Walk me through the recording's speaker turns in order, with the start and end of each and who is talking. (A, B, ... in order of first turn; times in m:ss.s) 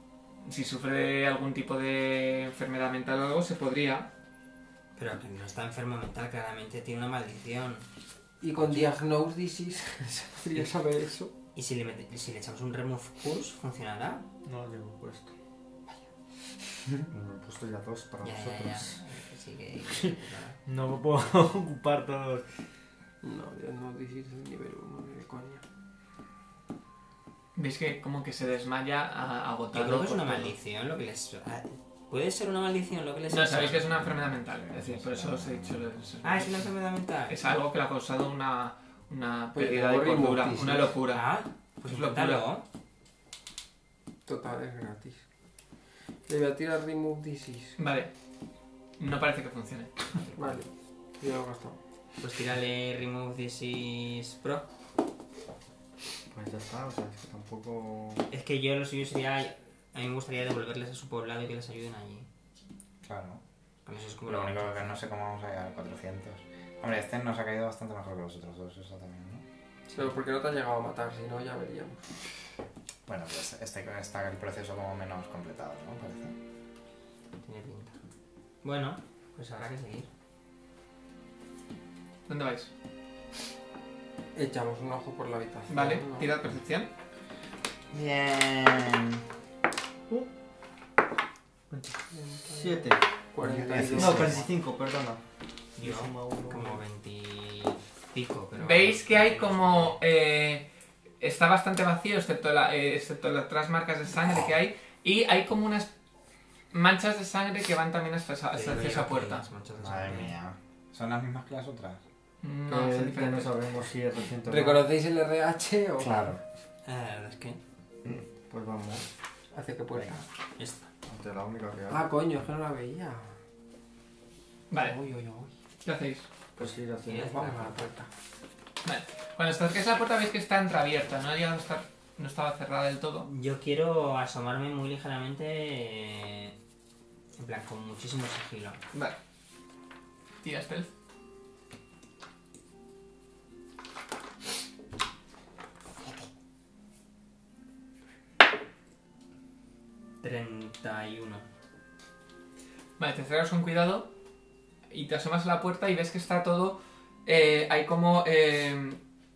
0:00.4-0:04.1 A
0:05.0-0:07.8 B
0:08.4-0:11.3 C
0:08.6-0:08.9 B
0:11.5-0:14.2 B
0:14.4-0:15.3 D
0:17.1-0:19.0 D
0:18.2-0:20.6 B
0:20.6-0:22.4 D
0:23.2-0:25.6 C
0:27.5-0:30.5 A
0:29.7-0:33.9 B
0:33.3-0:36.6 A
0:34.0-0:36.1 E
0:36.2-0:37.4 B
0:37.3-0:41.3 A
0:39.5-0:41.0 C
0:41.1-0:42.6 B
0:41.8-0:42.5 A
0:44.2-0:45.2 C
0:46.3-0:47.8 C
0:47.8-0:48.1 A
0:49.0-0:49.9 A
0:50.3-0:51.8 C
0:52.2-0:54.7 B
0:56.3-0:58.3 D
0:58.3-1:02.3 B
1:03.0-1:03.4 E
1:03.8-1:05.0 B
1:04.2-1:09.4 E
1:09.9-1:10.1 B
1:09.9-1:12.0 C
1:13.0-1:16.4 E
1:17.4-1:18.0 B
1:18.6-1:20.1 B
1:22.3-1:22.7 A
1:24.3-1:26.3 C
1:25.7-1:26.9 A
1:27.9-1:29.2 E
1:31.7-1:32.0 D
1:32.1-1:34.4 C
1:32.5-1:33.0 D
1:33.6-1:34.4 E
1:33.7-1:34.4 B
1:33.7-1:35.2 D
1:35.8-1:40.0 B
1:35.8-1:36.8 D
1:38.5-1:40.7 A
1:41.2-1:45.9 A
1:46.7-1:49.4 A
1:48.5-1:50.4 B
1:49.8-1:52.0 E
1:52.4-1:53.6 A
1:52.7-1:54.9 D
1:54.4-1:56.3 C
1:56.0-1:56.4 E
1:56.8-1:57.6 B
1:58.1-1:59.1 D
1:59.5-2:00.2 C
2:00.6-2:00.9 B
2:01.0-2:02.1 D
2:01.9-2:03.4 C
2:04.7-2:05.0 A
2:04.7-2:05.5 C
2:05.8-2:06.3 A
2:06.6-2:07.4 D
2:07.0-2:07.9 B
2:07.3-2:08.1 C
2:08.8-2:13.3 A
2:13.2-2:16.5 B
2:17.4-2:18.8 B
2:18.9-2:19.2 A
2:20.4-2:20.9 A
2:30.2-2:31.5 B
2:33.0-2:34.1 A
2:34.9-2:39.0 A